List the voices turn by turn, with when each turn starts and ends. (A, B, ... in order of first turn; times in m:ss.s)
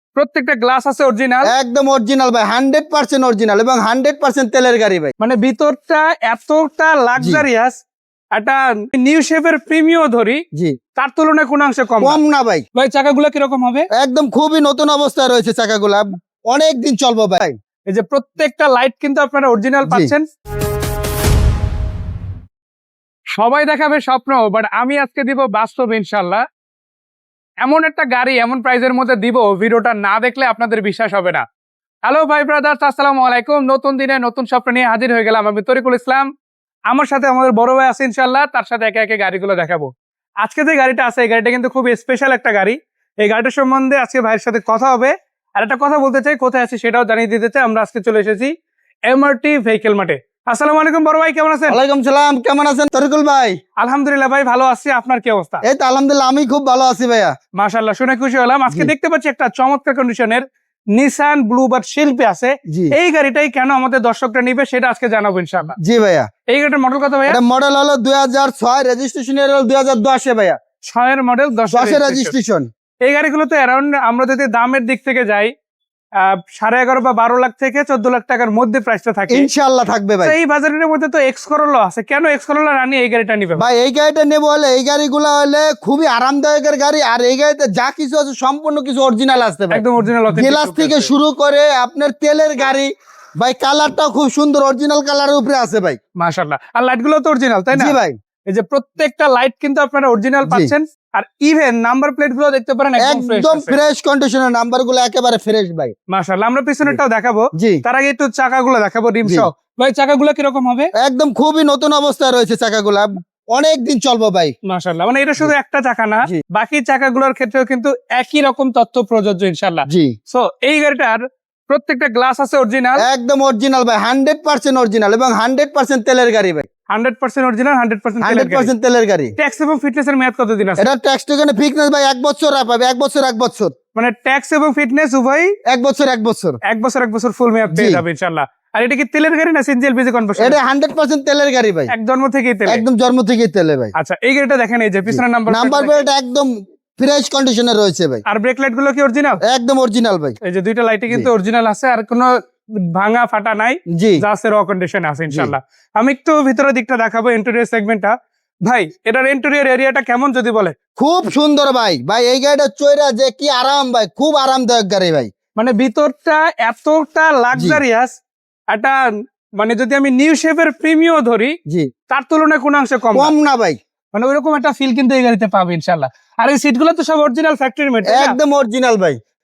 0:00.2-0:01.5 A
0:01.4-0:05.1 B
0:05.2-0:07.8 A
0:07.2-0:07.4 B
0:08.4-0:10.4 A
0:11.0-0:12.2 A
0:12.0-0:12.6 B
0:12.8-0:13.9 A
0:14.0-0:17.6 B
0:17.9-0:20.3 A
0:19.9-0:20.1 B
0:23.4-0:26.4 A
0:27.6-0:31.4 A
0:32.1-0:36.3 A
0:36.9-0:39.9 A
0:40.4-0:48.5 A
0:49.1-0:51.8 A
0:51.7-0:53.6 B
0:53.8-0:55.6 A
0:55.6-0:57.3 B
0:57.6-1:05.8 A
1:02.7-1:03.0 B
1:05.8-1:06.3 B
1:06.5-1:07.4 A
1:07.3-1:10.6 B
1:10.9-1:12.4 A
1:11.7-1:12.7 B
1:13.0-1:15.5 A
1:16.2-1:19.5 A
1:19.3-1:20.4 B
1:20.2-1:23.7 A
1:23.6-1:36.0 B
1:29.7-1:31.1 A
1:36.2-1:43.8 A
1:37.7-1:38.2 B
1:40.5-1:40.7 B
1:43.0-1:45.9 B
1:46.1-1:50.9 A
1:47.6-1:47.8 B
1:51.0-1:54.5 B
1:54.6-2:03.1 A
1:59.9-2:00.2 B
2:03.0-2:06.7 B
2:06.9-2:08.7 A
2:08.2-2:09.3 B
2:09.4-2:10.9 A
2:10.8-2:13.7 B
2:14.0-2:15.6 A
2:15.7-2:16.6 B
2:16.6-2:20.6 A
2:17.7-2:18.0 B
2:20.4-2:21.9 B
2:21.9-2:22.8 A
2:22.7-2:23.9 B
2:24.0-2:26.0 A
2:25.1-2:28.2 B
2:28.3-2:29.4 A
2:29.4-2:30.4 B
2:30.4-2:32.4 A
2:32.9-2:38.1 A
2:33.9-2:34.2 B
2:38.7-2:40.8 A
2:41.0-2:45.3 B
2:45.6-2:48.1 A
2:47.5-2:47.8 B
2:48.7-2:49.0 A
2:49.6-2:51.6 A
2:52.1-2:53.3 A
2:53.2-2:53.8 B
2:54.1-2:58.4 A
2:58.0-2:59.2 B